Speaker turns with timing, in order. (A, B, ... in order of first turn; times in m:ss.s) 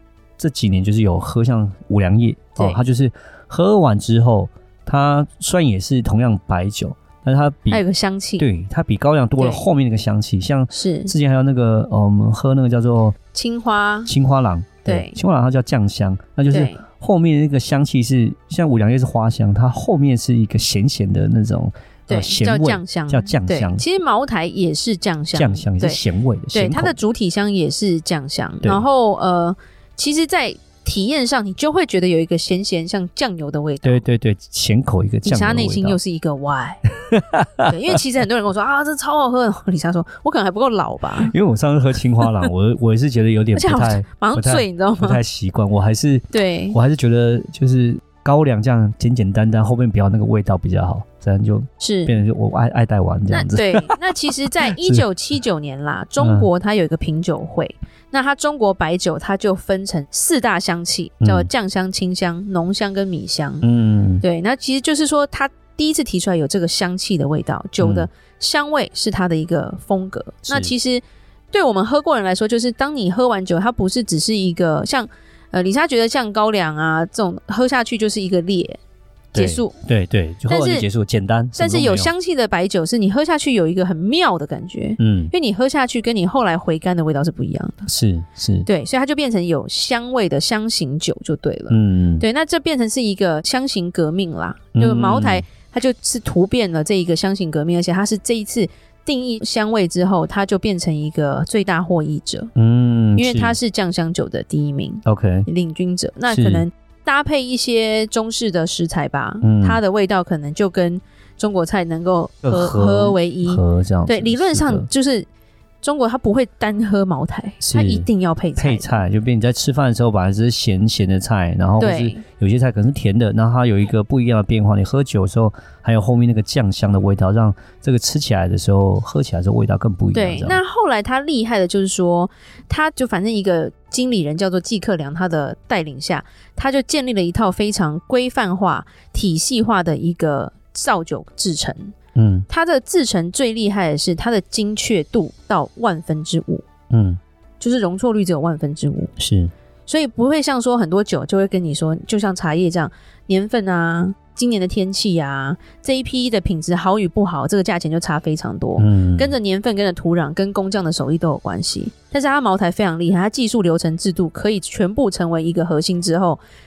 0:00.4-0:07.8 A
0:02.6-0:02.8 B
0:07.7-0:08.5 B
0:08.4-0:13.2 A
0:09.4-0:09.6 B
0:10.7-0:11.1 B
0:13.3-0:14.1 B
0:14.1-0:23.8 A
0:14.8-0:15.2 B
0:16.5-0:16.8 B
0:22.1-0:34.0 B
0:25.3-0:27.0 A
0:33.8-0:36.0 A
0:35.2-0:36.8 B
0:37.1-0:37.7 A
0:37.6-0:41.3 B
0:41.2-0:53.9 A
0:43.5-0:45.2 B
0:46.3-0:46.8 B
0:51.8-0:52.2 B
0:53.3-1:03.6 B
0:54.7-0:55.1 A
0:56.2-0:56.5 A
1:01.2-1:01.5 A
1:03.6-1:04.2 A
1:04.2-1:18.8 B
1:07.8-1:08.1 A
1:19.3-1:22.1 A
1:19.3-1:19.8 B
1:20.5-1:20.8 B
1:21.5-1:27.9 B
1:25.0-1:25.3 A
1:27.9-1:28.7 A
1:28.7-1:42.5 B
1:31.7-1:32.3 A
1:34.8-1:35.4 A
1:42.6-1:43.6 A
1:43.2-1:55.3 B
1:45.0-1:45.5 A
1:46.3-1:46.6 A
1:49.4-1:49.8 A
1:52.4-1:54.9 A
1:55.8-1:59.0 B
1:57.6-2:10.6 A
2:01.8-2:02.2 B
2:10.1-2:22.0 B
2:22.2-2:22.5 A
2:22.5-2:26.7 B
2:26.9-2:27.2 A
2:27.6-2:29.1 B
2:29.2-2:29.5 A
2:29.9-2:46.4 B
2:38.8-2:39.3 A